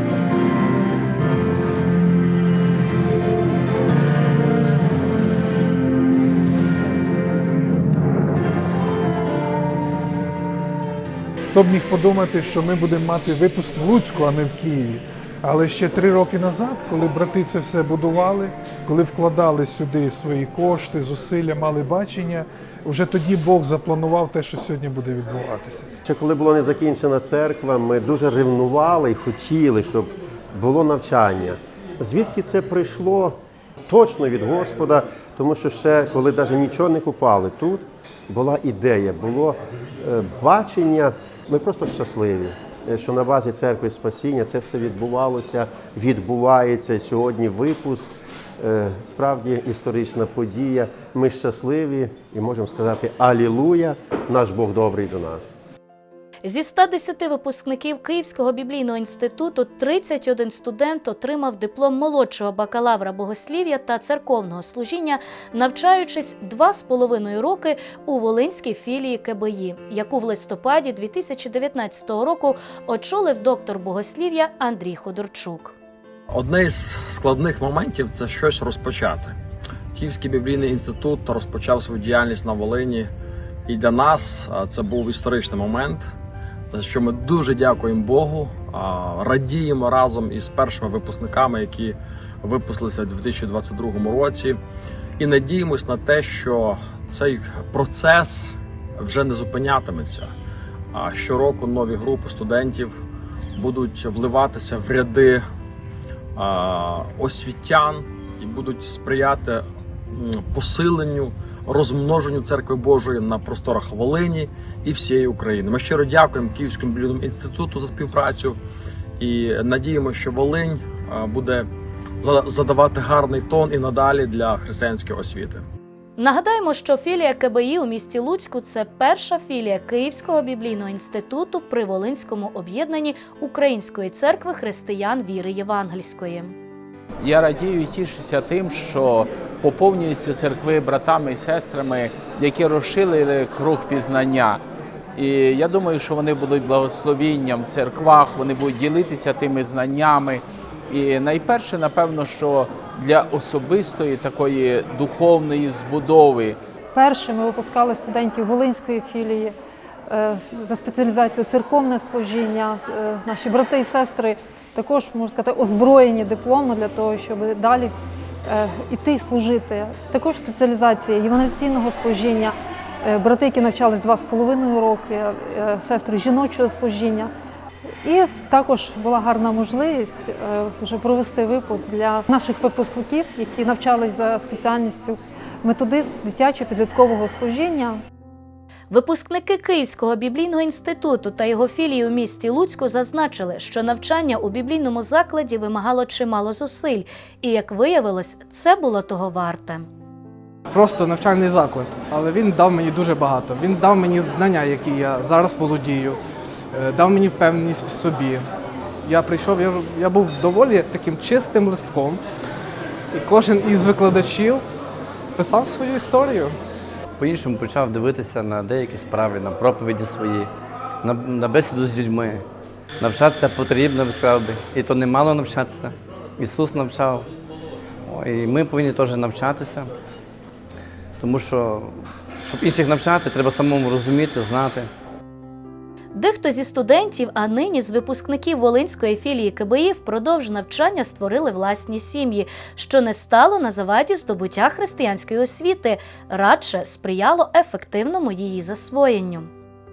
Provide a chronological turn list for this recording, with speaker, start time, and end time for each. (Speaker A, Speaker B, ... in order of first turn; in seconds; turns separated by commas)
Speaker A: 11.5-25.9, Speaker B: 26.1-55.5, Speaker C: 56.5-75.8, Speaker D: 76.3-79.3, Speaker D: 80.0-83.1, Speaker D: 83.7-86.0, Speaker D: 86.7-94.6, Speaker D: 95.2-100.3, Speaker D: 100.9-103.0, Speaker D: 103.6-105.4, Speaker D: 106.4-118.6, Speaker D: 119.2-121.7, Speaker D: 122.2-125.6, Speaker C: 126.2-136.5, Speaker E: 137.2-144.6, Speaker E: 145.1-156.6, Speaker F: 156.9-159.5, Speaker F: 160.1-167.9, Speaker F: 168.4-177.3, Speaker F: 178.0-188.0, Speaker C: 188.9-199.9, Speaker G: 200.7-206.2, Speaker G: 206.7-208.5, Speaker G: 209.0-212.2, Speaker G: 213.1-214.6, Speaker G: 215.4-216.6, Speaker H: 217.2-220.5, Speaker H: 221.0-222.4, Speaker H: 223.0-227.3, Speaker H: 228.1-229.9, Speaker H: 231.2-234.9, Speaker C: 236.1-249.5